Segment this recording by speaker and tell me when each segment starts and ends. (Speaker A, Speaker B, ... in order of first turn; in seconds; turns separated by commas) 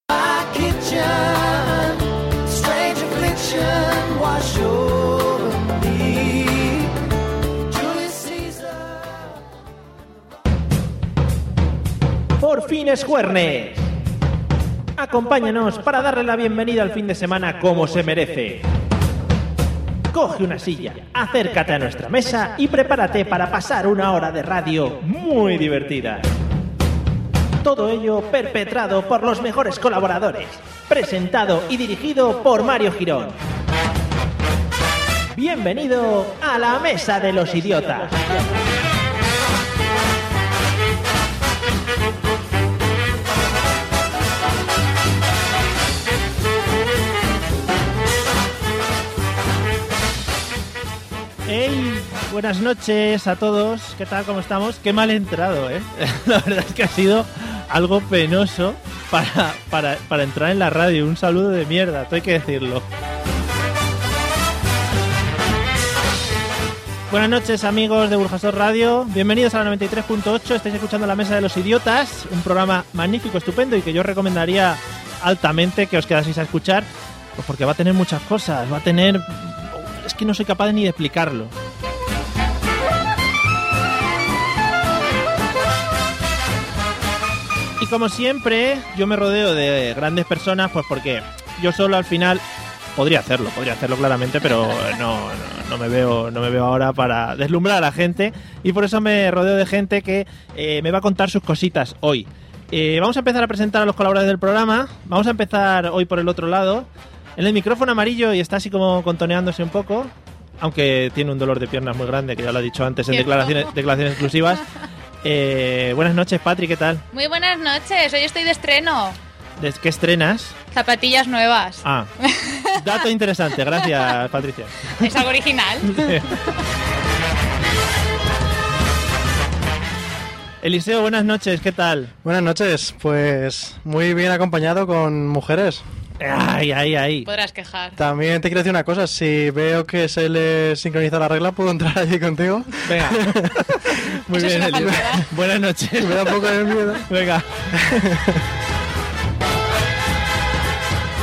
Speaker A: 0.3-1.9, Speaker A: 3.1-4.8, Speaker A: 8.0-8.3, Speaker B: 12.4-13.9, Speaker B: 14.9-18.7, Speaker B: 20.1-26.2, Speaker B: 27.6-33.4, Speaker B: 35.3-38.5, Speaker B: 51.5-62.9, Speaker B: 67.1-81.5, Speaker B: 87.8-92.4, Speaker B: 93.0-114.6, Speaker C: 113.1-113.7, Speaker B: 115.2-117.0, Speaker C: 117.1-119.2, Speaker B: 119.6-120.5, Speaker C: 120.7-122.9, Speaker B: 121.8-122.1, Speaker B: 122.7-125.2, Speaker C: 125.0-126.5, Speaker B: 125.8-126.4, Speaker B: 130.6-132.1, Speaker D: 132.2-135.8, Speaker B: 136.2-137.3, Speaker C: 137.2-138.0, Speaker D: 138.0-144.0, Speaker B: 142.8-147.8, Speaker C: 144.3-145.3, Speaker D: 144.8-145.1, Speaker D: 146.0-147.0, Speaker D: 147.7-148.4